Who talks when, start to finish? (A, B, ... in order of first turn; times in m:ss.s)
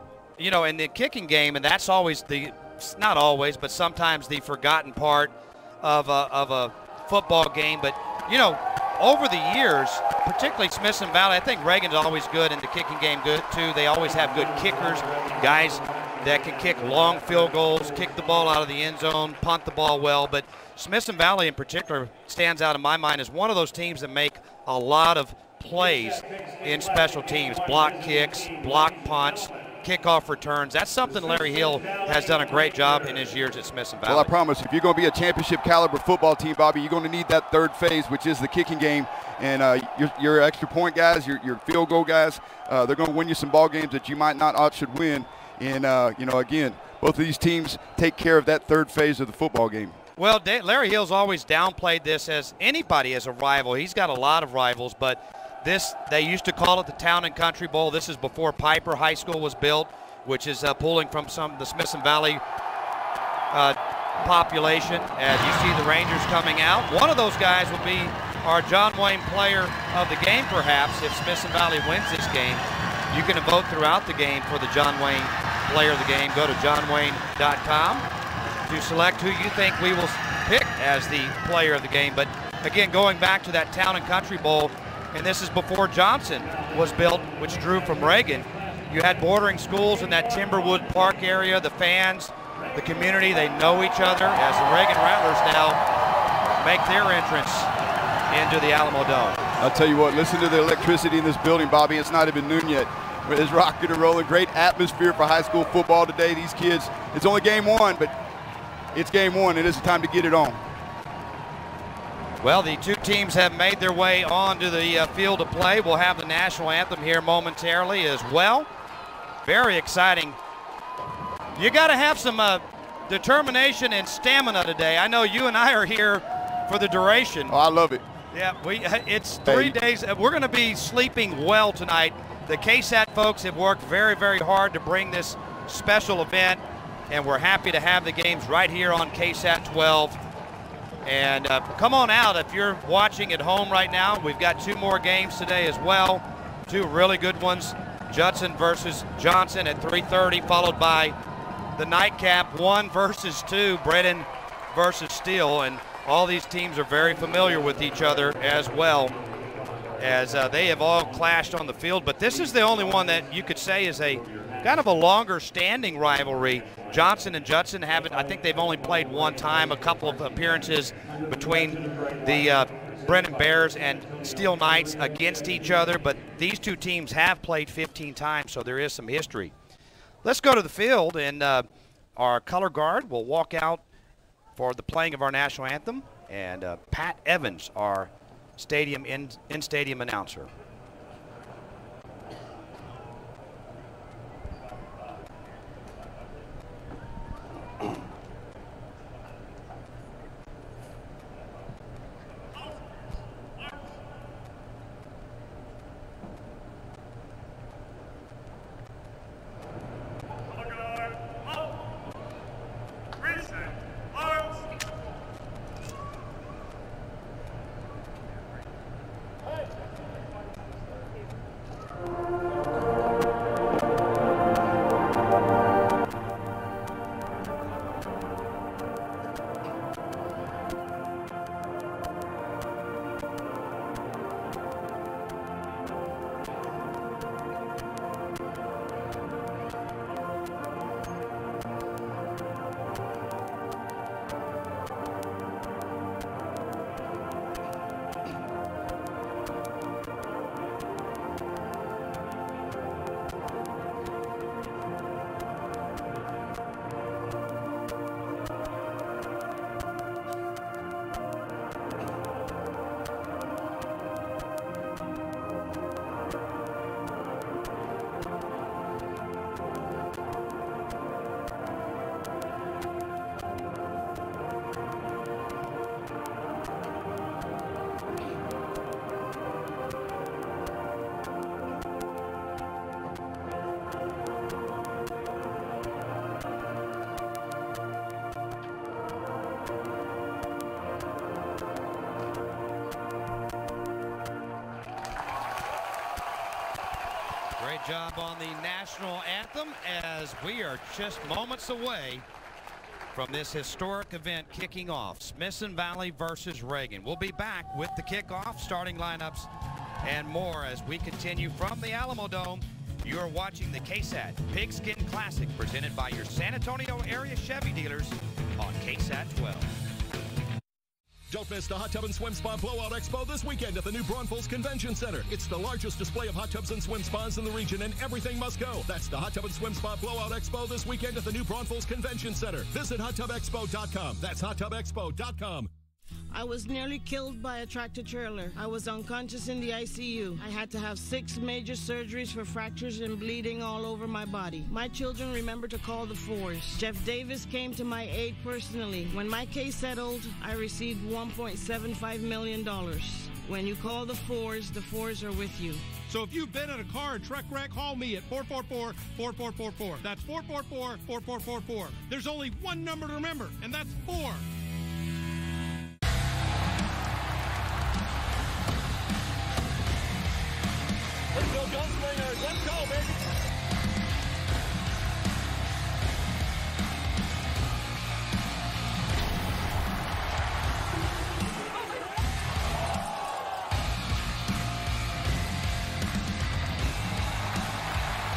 0:00.4-0:34.3 A
0:34.1-0:50.0 B
0:50.2-1:02.4 A
1:03.5-1:18.1 A
1:18.7-1:35.8 A
1:36.6-1:37.7 A
1:38.3-1:39.4 A
1:39.6-1:48.1 B
1:48.9-1:50.6 B
1:52.4-1:58.7 A
1:59.4-2:00.4 A
2:01.6-2:07.6 A
2:07.5-2:08.0 B
2:08.3-2:20.2 A
2:09.5-2:09.8 B
2:21.0-2:31.2 A
2:31.8-2:39.2 A
2:40.0-2:59.5 A
3:00.2-3:03.8 A
3:04.6-3:10.5 A
4:57.6-5:02.2 A
5:03.1-5:09.5 A
5:10.0-5:19.7 A
5:21.3-5:35.7 C
5:36.3-5:55.9 D
5:56.1-6:04.4 E
6:11.4-6:12.9 C
6:11.6-6:13.0 E